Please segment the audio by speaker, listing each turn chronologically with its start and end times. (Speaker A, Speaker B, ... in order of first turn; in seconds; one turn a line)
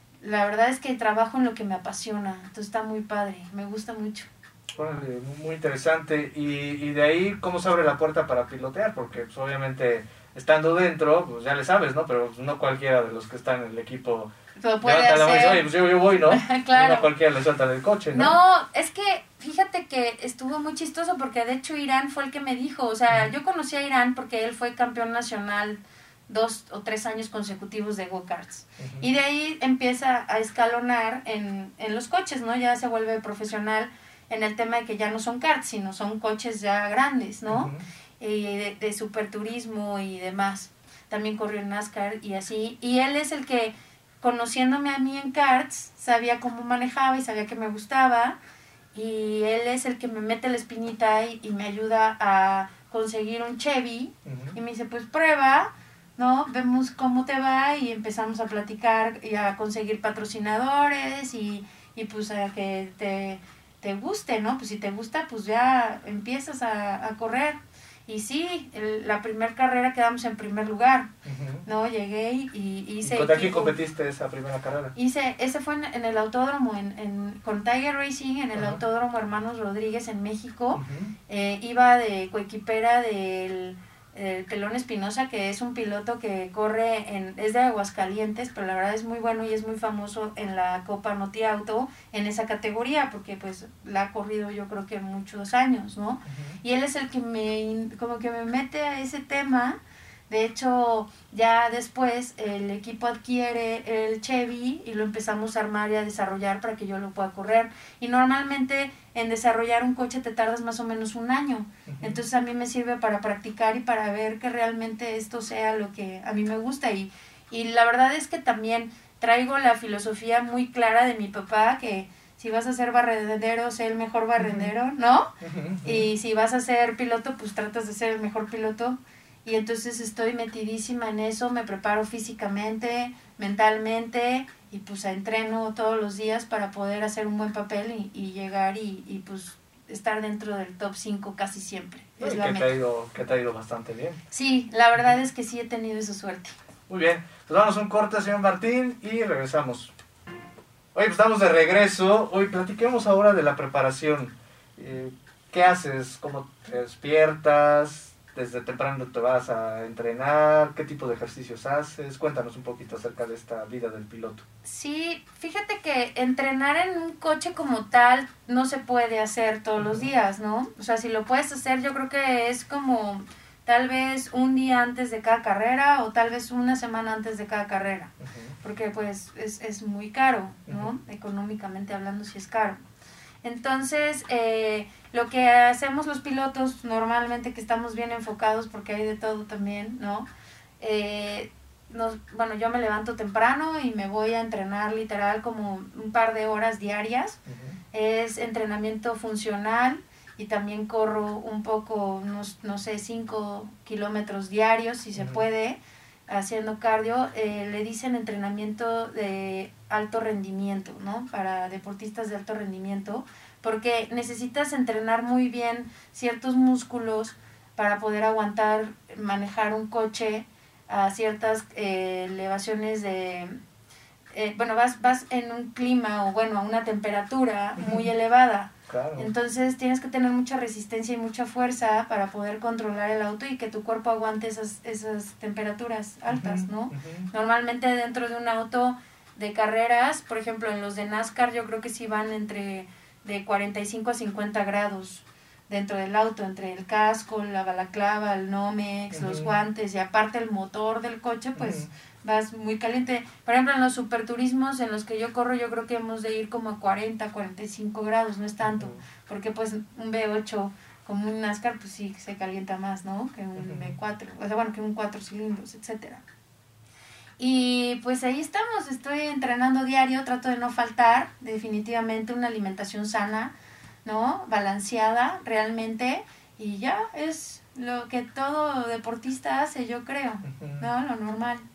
Speaker A: 0.2-4.3
Speaker B: 4.7-14.3
Speaker A: 14.6-17.1
Speaker B: 14.8-18.4
Speaker A: 18.1-48.4
Speaker B: 28.8-29.1
Speaker B: 37.5-37.8
Speaker A: 48.9-71.1
Speaker B: 54.2-54.6
Speaker B: 71.2-71.6
Speaker A: 71.6-73.7
Speaker B: 73.0-74.9
Speaker A: 74.9-99.8
Speaker B: 78.5-78.8
Speaker B: 80.7-81.1
Speaker B: 96.3-96.6
Speaker A: 100.3-125.3
Speaker B: 111.9-112.2
Speaker B: 124.4-124.7
Speaker B: 125.4-126.1
Speaker A: 125.8-142.7
Speaker B: 142.2-144.2
Speaker A: 144.3-146.5
Speaker B: 146.9-149.9
Speaker B: 150.9-164.4
Speaker A: 164.6-182.8
Speaker B: 169.8-170.1
Speaker B: 178.2-178.5
Speaker B: 180.7-180.9
Speaker A: 183.4-190.3
Speaker A: 190.8-197.4
Speaker B: 197.5-197.8
Speaker A: 197.9-223.5
Speaker B: 205.1-205.4
Speaker A: 224.3-266.2
Speaker B: 227.8-228.1
Speaker B: 228.9-229.3
Speaker B: 236.3-237.3
Speaker B: 249.1-249.5
Speaker B: 251.6-251.9
Speaker B: 258.6-259.0
Speaker B: 263.6-263.9
Speaker A: 267.4-281.6
Speaker B: 280.4-280.9